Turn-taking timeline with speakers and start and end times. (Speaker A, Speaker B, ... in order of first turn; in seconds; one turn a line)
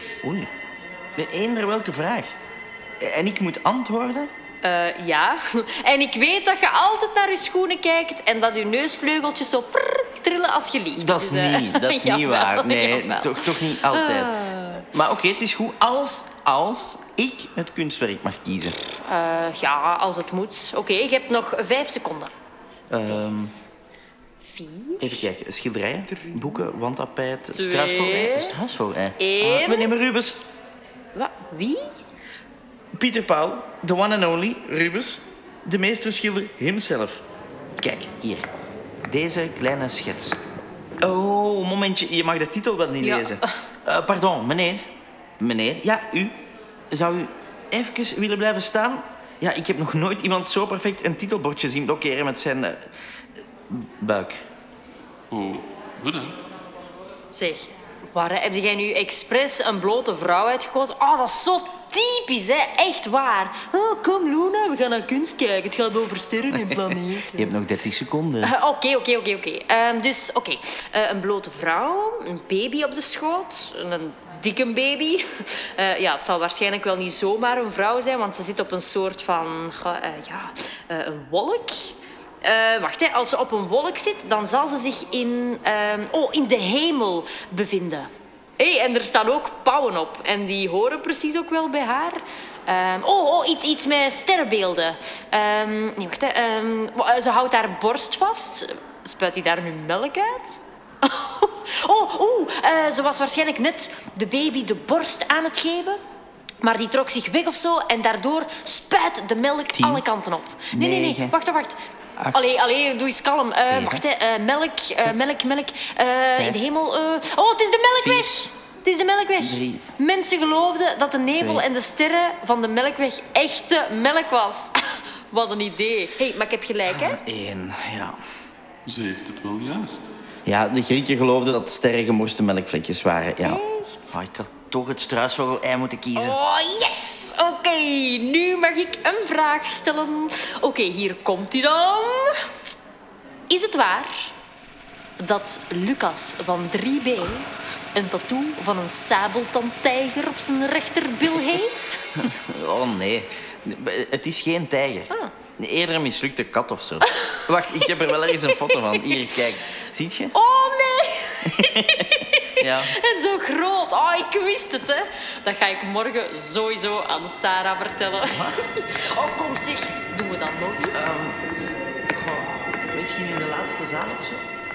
Speaker A: 0.2-0.5
Speaker A: 1.2-2.3
Speaker A: 3.0-4.3
Speaker B: 4.6-14.8
Speaker A: 11.0-18.8
Speaker B: 19.0-22.3
Speaker A: 22.9-23.5
Speaker B: 24.4-25.3
Speaker A: 25.0-30.4
Speaker B: 27.5-28.6
Speaker B: 29.2-29.9
Speaker B: 31.1-32.0
Speaker A: 33.0-37.2
Speaker A: 37.8-38.5
Speaker A: 39.0-40.4
Speaker A: 41.0-44.9
Speaker B: 43.0-43.6
Speaker A: 45.4-46.4
Speaker A: 46.9-52.9
Speaker A: 53.7-54.4
Speaker C: 55.3-56.4
Speaker B: 57.3-67.6
Speaker A: 66.5-68.5
Speaker B: 68.4-106.0
Speaker B: 106.6-111.8
Speaker A: 109.7-110.0
Speaker A: 110.7-111.3
Speaker A: 112.2-112.5
Speaker B: 112.3-127.2
Speaker A: 113.6-114.0
Speaker A: 115.0-115.2
Speaker A: 116.3-116.6
Speaker A: 118.0-118.4
Speaker A: 119.4-119.8
Speaker A: 121.3-121.6
Speaker A: 126.9-128.2
Speaker C: 128.9-130.0
Speaker A: 130.4-136.4
Speaker B: 133.4-134.1
Speaker B: 136.2-142.4
Speaker B: 143.5-144.3
Speaker B: 145.2-152.2
Speaker A: 152.1-160.3
Speaker B: 157.0-159.4
Speaker B: 160.3-171.1
Speaker A: 161.4-162.9
Speaker A: 168.2-168.6
Speaker A: 170.9-171.4
Speaker A: 172.1-174.4